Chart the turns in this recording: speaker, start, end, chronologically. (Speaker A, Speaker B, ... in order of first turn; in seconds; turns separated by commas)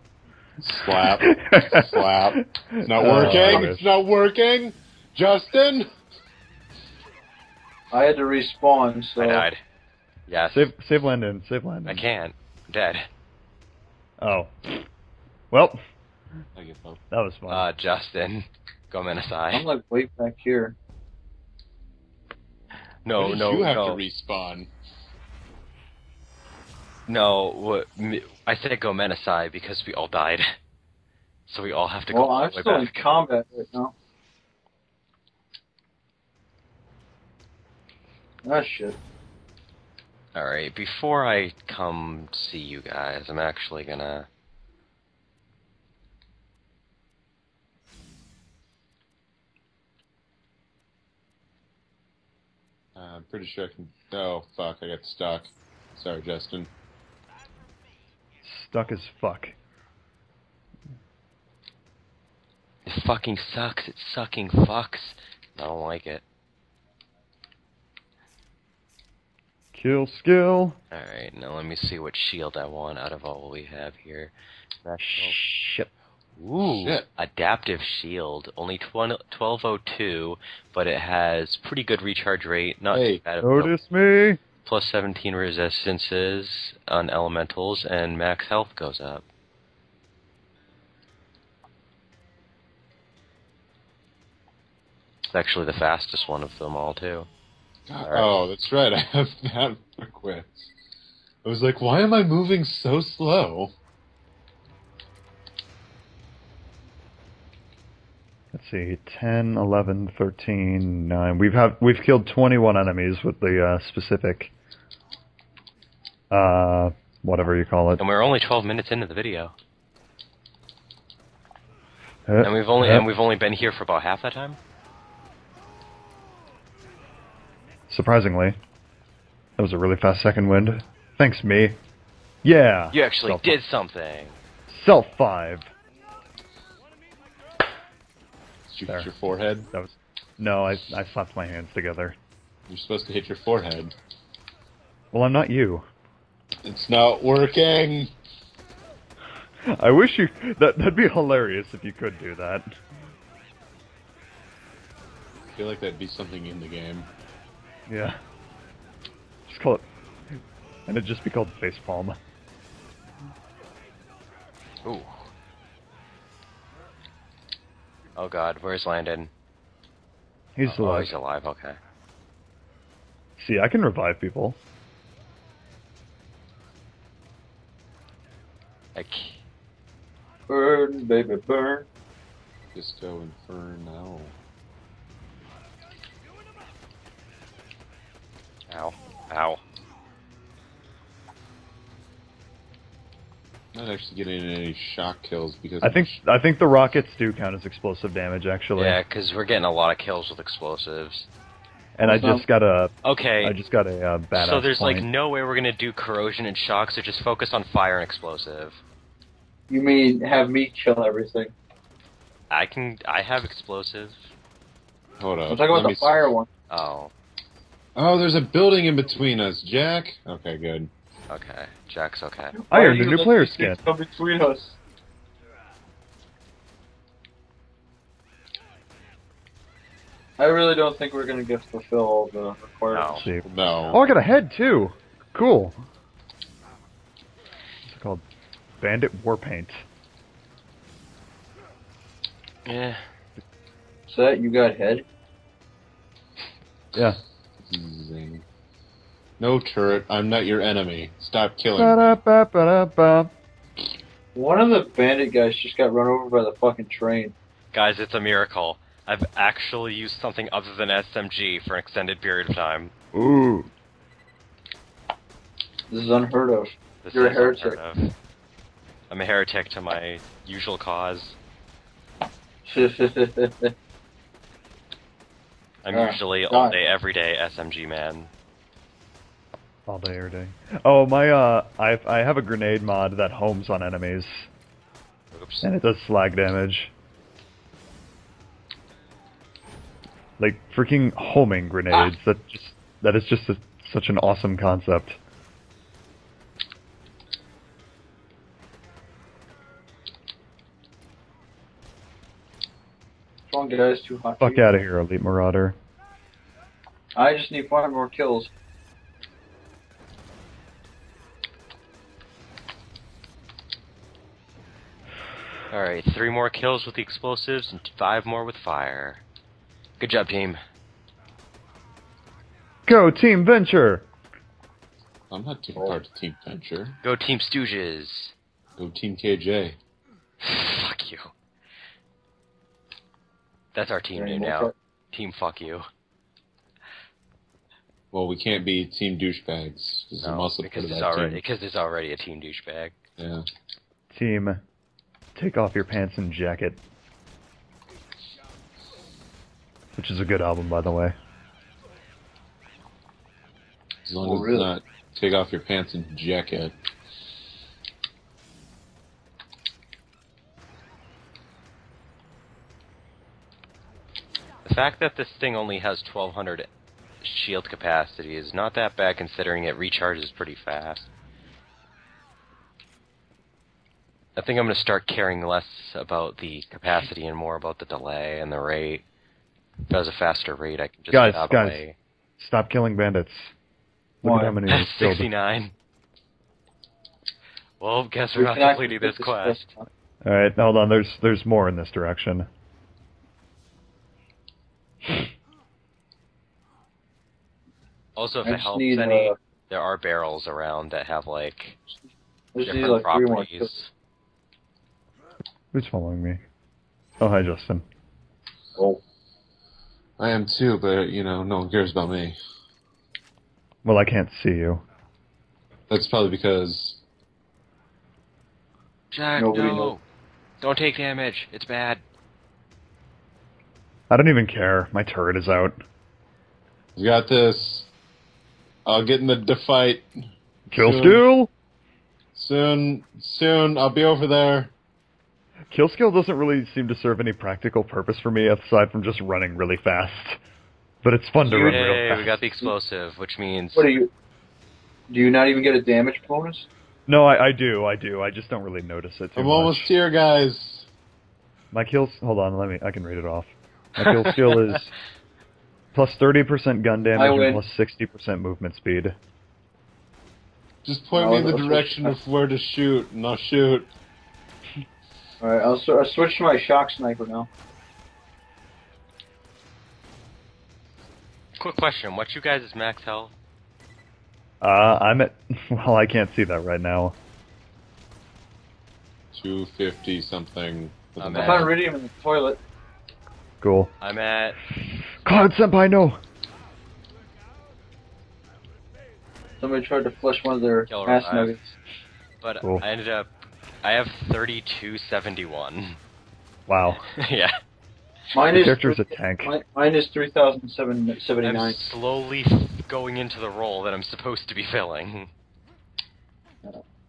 Speaker A: 0.6-5.9, Speaker B: 1.0-3.9, Speaker C: 3.0-3.6, Speaker C: 7.9-9.5, Speaker D: 9.2-9.6, Speaker D: 10.3-10.7, Speaker B: 10.5-12.0, Speaker D: 11.8-13.1, Speaker B: 14.2-14.8, Speaker B: 15.5-15.8, Speaker A: 16.6-17.0, Speaker B: 17.1-17.6, Speaker D: 17.5-19.6, Speaker C: 19.5-20.7, Speaker D: 23.0-24.0, Speaker A: 23.2-24.7, Speaker D: 27.1-30.5, Speaker D: 31.5-32.9, Speaker C: 32.1-33.9, Speaker C: 38.4-39.0, Speaker D: 40.3-44.3, Speaker A: 53.0-56.7, Speaker B: 58.4-59.5, Speaker D: 62.9-66.2, Speaker B: 69.7-70.8, Speaker D: 70.9-74.3, Speaker D: 74.8-75.4, Speaker B: 75.0-75.9, Speaker D: 76.4-83.7, Speaker A: 76.6-77.0, Speaker A: 82.9-83.2, Speaker B: 83.4-84.4, Speaker D: 84.6-89.2, Speaker D: 95.3-97.3, Speaker A: 97.9-100.7, Speaker D: 98.0-98.5, Speaker A: 101.4-103.7, Speaker B: 108.5-114.5, Speaker B: 116.3-118.0, Speaker D: 118.0-119.5, Speaker B: 122.3-123.0, Speaker D: 122.4-124.6, Speaker B: 127.9-128.6, Speaker B: 129.6-131.8, Speaker B: 132.4-133.5, Speaker D: 132.9-134.4, Speaker B: 134.7-135.7, Speaker A: 138.7-139.7, Speaker B: 139.7-142.2, Speaker A: 142.7-143.9, Speaker B: 145.1-145.8, Speaker A: 146.6-148.1, Speaker B: 149.6-152.7, Speaker A: 155.5-157.1, Speaker B: 157.9-158.2, Speaker B: 159.5-159.8, Speaker B: 160.9-162.2, Speaker D: 164.8-165.3, Speaker D: 168.2-169.3, Speaker B: 170.6-171.1, Speaker D: 170.6-171.8, Speaker B: 173.4-174.6, Speaker D: 178.9-179.4, Speaker C: 180.5-181.9, Speaker A: 182.7-184.3, Speaker D: 188.7-189.6, Speaker A: 193.7-196.2, Speaker B: 195.8-199.0, Speaker D: 198.8-201.3, Speaker B: 201.9-205.1, Speaker C: 202.0-202.4, Speaker D: 203.0-203.6, Speaker D: 204.3-208.8, Speaker C: 209.7-211.5, Speaker D: 212.5-214.3, Speaker A: 215.2-216.3, Speaker C: 215.5-216.5, Speaker D: 216.7-217.1, Speaker A: 217.9-220.9, Speaker D: 221.3-222.5, Speaker C: 222.5-224.8, Speaker B: 222.7-223.8, Speaker C: 230.4-233.9, Speaker D: 232.9-233.3, Speaker B: 233.2-235.8, Speaker A: 233.4-234.0, Speaker B: 237.8-238.2, Speaker B: 238.8-239.8, Speaker D: 242.6-243.0, Speaker C: 244.1-245.0, Speaker B: 246.9-247.2, Speaker A: 247.7-248.4, Speaker A: 249.4-252.0, Speaker B: 251.8-253.3, Speaker C: 254.3-257.3, Speaker D: 257.7-262.9, Speaker B: 263.1-263.7, Speaker C: 265.9-267.8, Speaker D: 267.0-268.1, Speaker D: 269.1-271.4, Speaker C: 272.6-273.7, Speaker D: 275.8-278.3, Speaker C: 275.9-276.8, Speaker B: 279.9-284.5, Speaker D: 285.3-285.7, Speaker B: 285.6-286.9, Speaker B: 290.4-295.2, Speaker C: 303.5-304.6, Speaker B: 304.4-305.8, Speaker C: 307.1-308.5, Speaker D: 315.7-319.2, Speaker D: 320.0-320.6, Speaker B: 322.9-324.1, Speaker A: 325.3-327.0, Speaker D: 327.0-328.3, Speaker A: 328.8-329.8, Speaker D: 330.4-331.3, Speaker D: 333.7-335.9, Speaker C: 334.1-334.7, Speaker A: 338.1-341.4, Speaker D: 340.2-342.9, Speaker A: 343.2-343.4, Speaker B: 344.1-344.6, Speaker B: 345.3-346.8, Speaker B: 349.9-351.1, Speaker A: 354.1-356.7, Speaker C: 354.2-354.7, Speaker D: 364.6-366.7, Speaker D: 367.2-371.1, Speaker D: 374.4-379.0, Speaker D: 379.9-381.9, Speaker B: 381.1-381.8, Speaker B: 382.4-383.5, Speaker B: 384.2-385.3, Speaker C: 384.2-384.5, Speaker D: 384.6-385.7, Speaker D: 387.8-389.6, Speaker C: 388.3-389.9, Speaker B: 390.2-392.5, Speaker D: 398.1-401.8, Speaker C: 398.4-399.3, Speaker C: 402.5-403.7, Speaker D: 402.6-403.9, Speaker B: 405.7-406.4, Speaker B: 407.2-407.8, Speaker A: 410.2-412.4, Speaker B: 413.8-414.8, Speaker A: 415.9-417.0, Speaker D: 419.1-420.0, Speaker C: 419.4-419.9, Speaker D: 420.6-422.0, Speaker B: 424.1-425.8, Speaker A: 426.9-427.9, Speaker A: 428.8-430.1, Speaker A: 430.7-431.2, Speaker B: 430.7-431.5, Speaker A: 432.3-434.7, Speaker B: 435.7-440.4, Speaker B: 441.0-442.4, Speaker D: 441.4-443.9, Speaker C: 443.7-444.1, Speaker C: 445.1-446.7, Speaker B: 447.1-449.9, Speaker A: 449.3-450.9, Speaker B: 451.7-454.9, Speaker D: 454.0-454.6, Speaker B: 455.9-459.1, Speaker C: 457.1-457.6, Speaker A: 460.8-463.9, Speaker C: 461.1-462.2, Speaker C: 465.4-467.5, Speaker D: 471.6-473.3, Speaker B: 474.6-477.1, Speaker A: 479.3-481.8, Speaker D: 481.2-481.7, Speaker C: 481.3-482.6, Speaker B: 483.6-483.9, Speaker D: 484.0-484.6, Speaker B: 485.2-486.2, Speaker C: 489.6-491.7, Speaker D: 490.9-491.6, Speaker D: 492.4-493.3, Speaker D: 493.8-496.0, Speaker B: 496.7-497.0, Speaker D: 497.1-497.6, Speaker C: 498.3-501.8, Speaker B: 498.5-499.5, Speaker D: 501.4-505.3